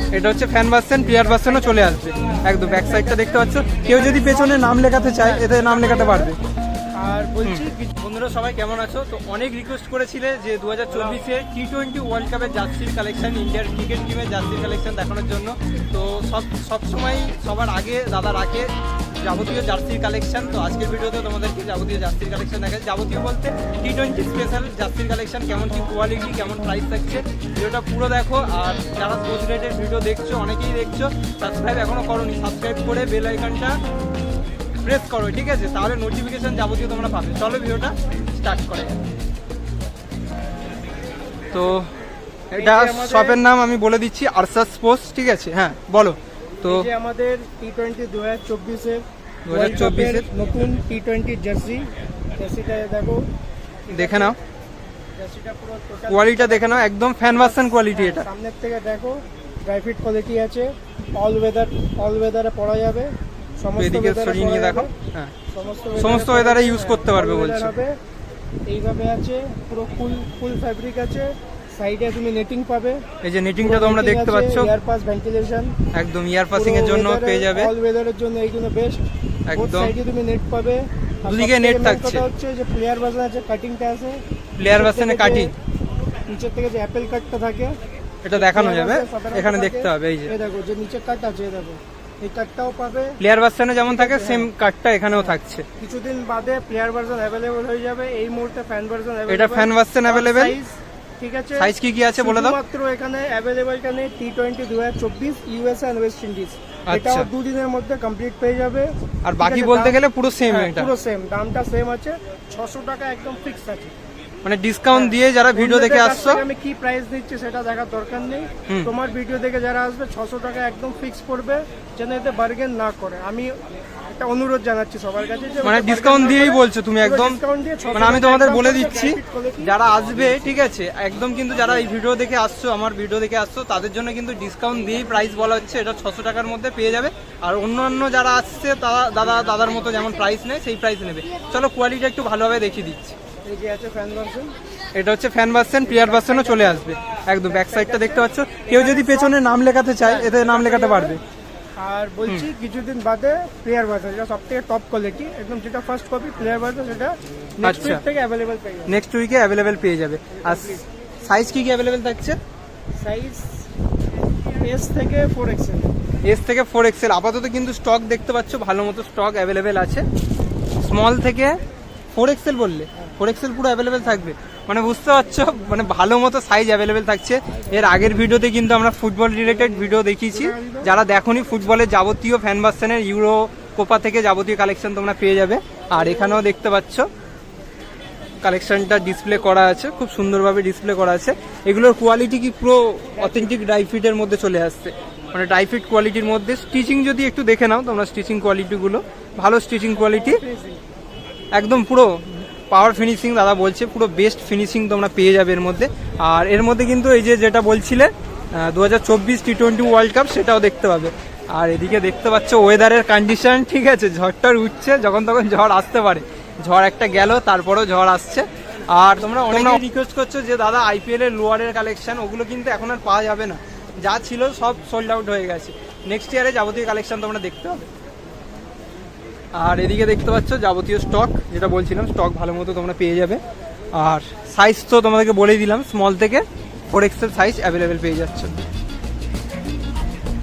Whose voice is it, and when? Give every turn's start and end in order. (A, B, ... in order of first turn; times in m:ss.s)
0:00.1-0:06.4 A
0:01.0-0:06.3 B
0:07.0-0:07.9 B
0:07.4-0:33.8 A
0:34.8-0:39.0 A
0:41.5-0:41.9 A
0:42.5-0:46.9 A
0:42.5-0:43.4 B
0:46.6-0:53.2 B
0:49.5-0:50.3 A
0:53.9-0:54.4 B
0:53.9-0:54.4 A
0:55.2-1:04.9 B
0:56.1-0:58.3 A
1:03.8-1:05.3 A
1:05.5-1:08.0 B
1:06.0-1:07.7 A
1:08.7-1:13.0 B
1:13.2-1:14.7 A
1:13.6-1:15.8 B
1:15.9-1:17.7 A
1:16.5-1:25.5 B
1:19.5-1:19.9 A
1:21.2-1:22.2 A
1:24.6-1:25.5 A
1:26.3-1:27.8 B
1:28.2-1:30.3 A
1:28.3-1:33.2 B
1:33.2-1:35.7 A
1:33.8-1:34.5 B
1:35.2-1:53.9 B
1:39.3-1:40.6 A
1:41.6-1:42.6 A
1:46.9-1:47.3 A
1:49.2-1:50.9 A
1:54.4-1:56.4 A
1:54.9-2:03.5 B
2:04.1-2:09.7 B
2:05.6-2:07.4 A
2:07.9-2:23.2 A
2:23.4-2:24.6 B
2:25.0-2:31.2 A
2:25.8-2:26.9 B
2:27.5-2:29.4 B
2:30.0-2:31.2 B
2:31.8-2:39.0 B
2:37.6-2:38.0 A
2:38.9-2:42.4 A
2:40.3-2:40.8 B
2:43.0-2:43.7 B
2:44.6-2:45.9 B
2:46.3-2:50.1 A
2:50.8-2:51.6 A
2:52.2-3:07.1 A
2:57.7-2:58.1 B
2:59.4-3:01.0 B
3:08.4-3:20.4 A
3:13.2-3:13.5 B
3:19.9-3:20.8 B
3:21.5-3:47.8 A
3:49.6-3:53.4 A
3:53.9-3:58.6 A